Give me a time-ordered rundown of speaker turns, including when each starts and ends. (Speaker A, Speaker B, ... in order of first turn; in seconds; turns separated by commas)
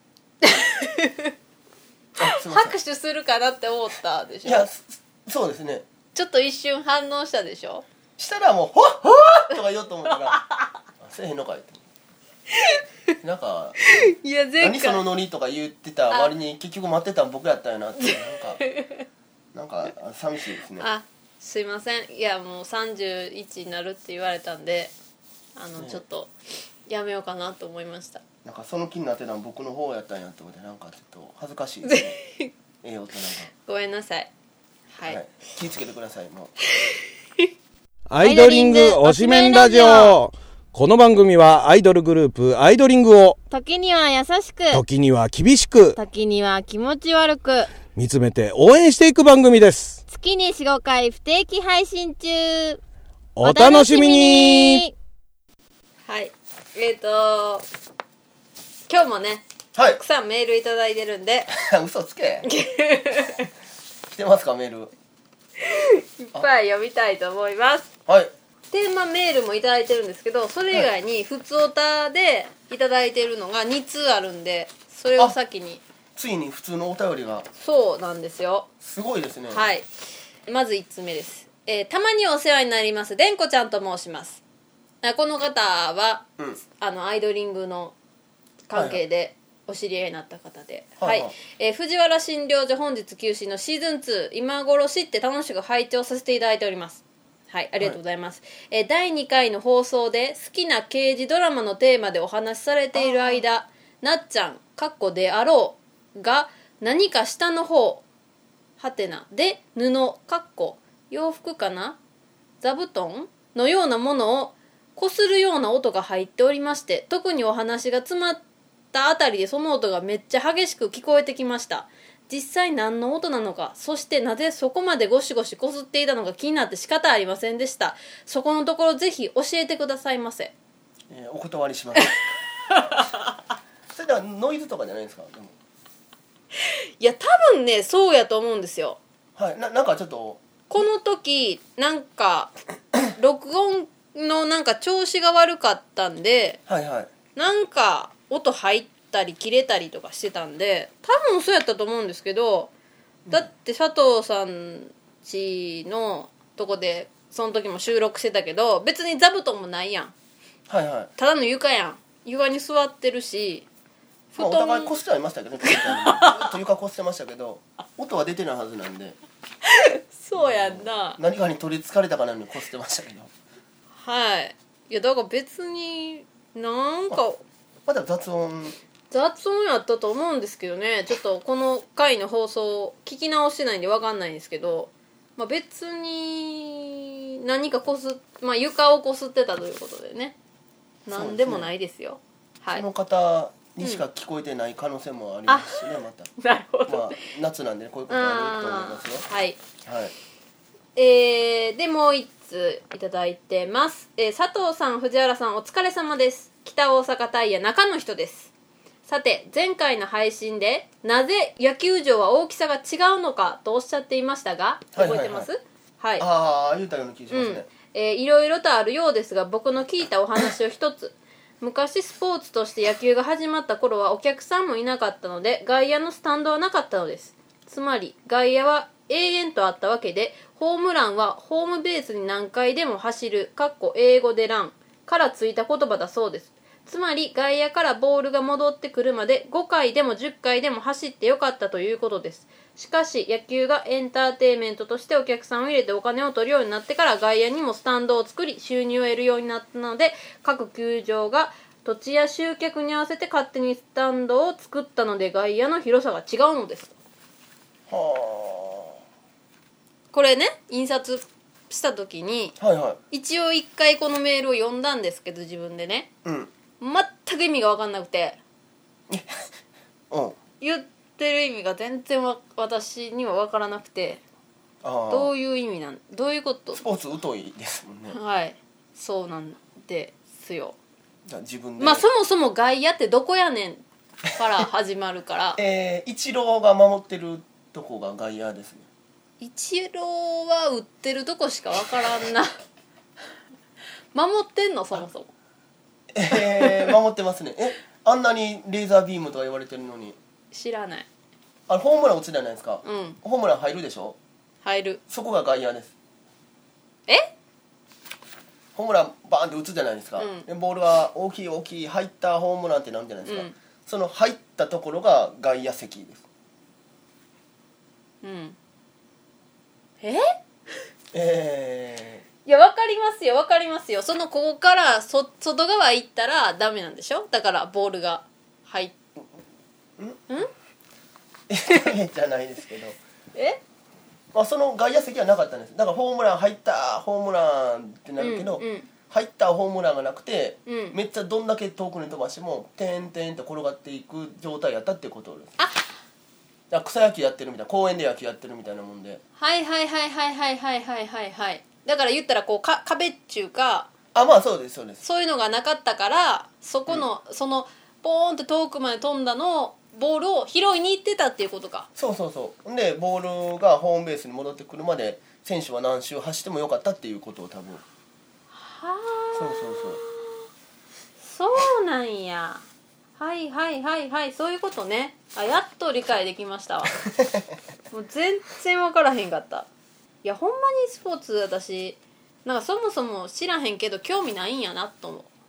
Speaker A: 0.4-1.3, Speaker B: 2.2-2.8, Speaker A: 2.2-4.7, Speaker B: 4.4-5.8, Speaker A: 6.2-7.8, Speaker B: 8.2-10.4, Speaker B: 11.0-11.8, Speaker B: 13.2-14.0, Speaker A: 14.0-15.0, Speaker B: 14.6-18.7, Speaker A: 18.6-19.0, Speaker B: 19.5-20.9, Speaker A: 20.8-24.9, Speaker A: 25.6-26.3, Speaker A: 26.9-28.2, Speaker B: 28.4-32.2, Speaker A: 31.8-32.5, Speaker B: 32.8-33.5, Speaker A: 33.7-34.3, Speaker A: 35.0-35.2, Speaker B: 35.1-36.5, Speaker A: 36.8-37.5, Speaker C: 38.1-43.4, Speaker D: 38.2-40.1, Speaker A: 39.1-40.1, Speaker D: 43.5-44.8, Speaker C: 44.7-46.0, Speaker D: 46.0-47.7, Speaker C: 47.9-50.0, Speaker D: 50.1-52.8, Speaker C: 53.4-54.9, Speaker D: 53.4-54.9, Speaker A: 56.1-57.6, Speaker A: 58.9-59.5, Speaker B: 59.8-60.0, Speaker A: 60.0-61.5, Speaker B: 61.5-62.5, Speaker A: 62.4-63.5, Speaker B: 64.1-64.9, Speaker A: 65.6-67.9, Speaker B: 68.1-68.3, Speaker A: 68.7-75.8, Speaker B: 76.2-77.5, Speaker A: 77.5-78.7, Speaker B: 78.8-79.7, Speaker A: 79.5-79.9, Speaker A: 80.5-84.4, Speaker A: 85.0-87.9, Speaker A: 88.7-108.0, Speaker B: 88.7-89.0, Speaker B: 91.0-91.3, Speaker B: 103.0-103.4, Speaker A: 108.8-112.0, Speaker A: 112.6-118.4, Speaker A: 118.9-130.5, Speaker B: 131.1-132.2, Speaker B: 133.9-135.5, Speaker A: 136.6-139.0, Speaker B: 139.4-140.4, Speaker A: 140.7-142.6, Speaker A: 143.1-146.6, Speaker B: 146.7-147.1, Speaker A: 147.4-152.7, Speaker A: 153.3-160.1, Speaker B: 160.7-161.1, Speaker A: 161.2-163.7, Speaker A: 164.3-165.0, Speaker B: 164.4-169.2, Speaker A: 165.7-166.5, Speaker A: 169.7-171.2, Speaker B: 170.3-173.3, Speaker A: 174.0-177.4, Speaker B: 177.9-178.8, Speaker A: 179.1-190.3, Speaker A: 191.1-192.9, Speaker B: 191.1-191.7, Speaker B: 192.7-196.3, Speaker A: 195.5-197.2, Speaker B: 196.9-199.2, Speaker A: 198.1-199.6, Speaker B: 199.8-200.1, Speaker A: 201.0-208.5, Speaker A: 209.1-216.3, Speaker B: 214.9-215.5, Speaker B: 216.2-217.7, Speaker A: 217.3-256.9, Speaker B: 257.9-259.0, Speaker A: 260.1-262.6, Speaker B: 262.6-263.0, Speaker A: 263.1-266.1, Speaker B: 266.2-266.5, Speaker A: 266.8-268.4, Speaker B: 269.1-269.5, Speaker B: 270.1-270.4, Speaker A: 270.6-274.2, Speaker B: 274.8-275.3, Speaker A: 275.1-276.8, Speaker B: 276.7-278.2, Speaker A: 278.1-280.8, Speaker B: 281.3-282.1, Speaker A: 281.8-285.6, Speaker B: 285.6-288.9, Speaker A: 289.4-292.6, Speaker A: 294.1-295.3, Speaker B: 296.1-300.2, Speaker A: 296.3-296.9, Speaker A: 300.5-301.1, Speaker B: 301.7-304.2, Speaker A: 302.8-303.2, Speaker A: 304.6-305.0, Speaker B: 305.1-305.9, Speaker B: 308.8-316.2, Speaker A: 310.2-310.5, Speaker A: 313.3-313.5, Speaker A: 318.2-318.6, Speaker A: 320.0-320.3, Speaker B: 321.1-322.2, Speaker A: 322.5-328.9, Speaker B: 331.5-333.0, Speaker A: 333.4-333.6, Speaker B: 334.3-345.5, Speaker A: 338.2-338.9, Speaker A: 340.7-341.0, Speaker A: 345.6-345.8, Speaker B: 346.7-349.2, Speaker A: 349.4-353.9, Speaker B: 354.1-355.0, Speaker A: 355.0-361.9, Speaker B: 362.0-367.8, Speaker A: 368.5-370.4, Speaker B: 369.4-370.0, Speaker A: 371.2-372.6, Speaker A: 373.2-376.9, Speaker A: 377.9-379.7, Speaker A: 380.2-385.3